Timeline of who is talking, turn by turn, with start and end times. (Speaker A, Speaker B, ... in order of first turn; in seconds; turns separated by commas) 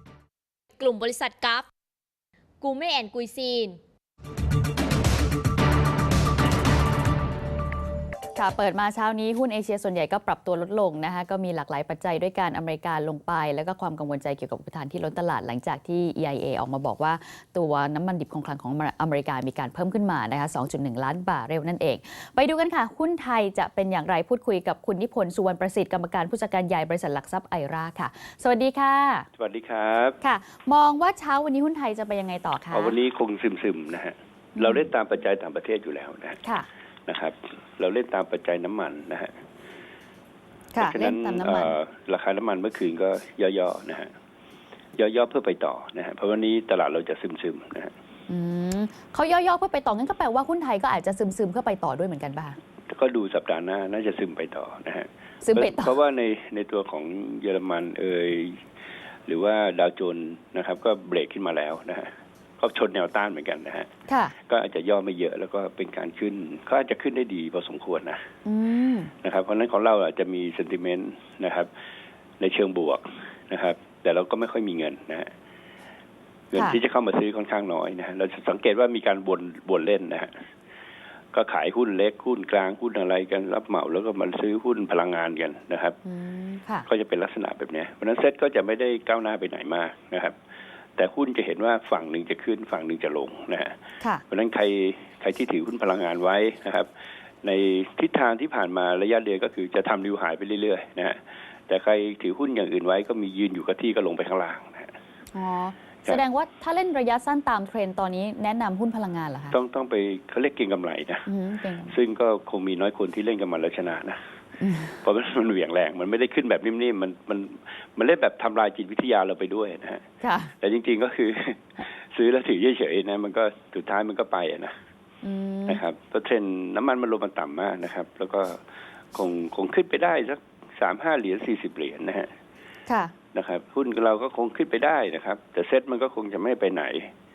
Speaker A: 0.8-1.7, Speaker A: 2.6-3.8, Speaker B: 8.3-29.3, Speaker C: 29.4-30.2, Speaker B: 30.2-33.0, Speaker C: 32.7-36.4, Speaker B: 34.5-34.8, Speaker C: 37.1-39.3, Speaker B: 40.7-41.7, Speaker C: 40.8-44.1, Speaker C: 45.0-47.9, Speaker B: 48.3-52.6, Speaker C: 52.9-58.6, Speaker B: 55.4-55.9, Speaker C: 59.3-63.9, Speaker B: 64.1-64.3, Speaker C: 64.5-68.2, Speaker B: 68.5-69.1, Speaker C: 69.2-71.7, Speaker C: 72.4-75.3, Speaker C: 76.5-80.3, Speaker C: 81.3-86.0, Speaker B: 86.0-86.9, Speaker C: 86.9-90.3, Speaker C: 91.0-93.8, Speaker C: 94.3-96.9, Speaker C: 97.4-104.9, Speaker B: 105.3-109.6, Speaker C: 109.5-111.3, Speaker B: 111.2-112.0, Speaker C: 111.9-114.2, Speaker B: 114.6-115.0, Speaker C: 115.0-120.0, Speaker B: 120.2-120.5, Speaker C: 120.6-124.7, Speaker B: 125.2-125.8, Speaker C: 125.7-128.6, Speaker C: 129.1-132.3, Speaker B: 132.9-133.1, Speaker C: 133.3-137.1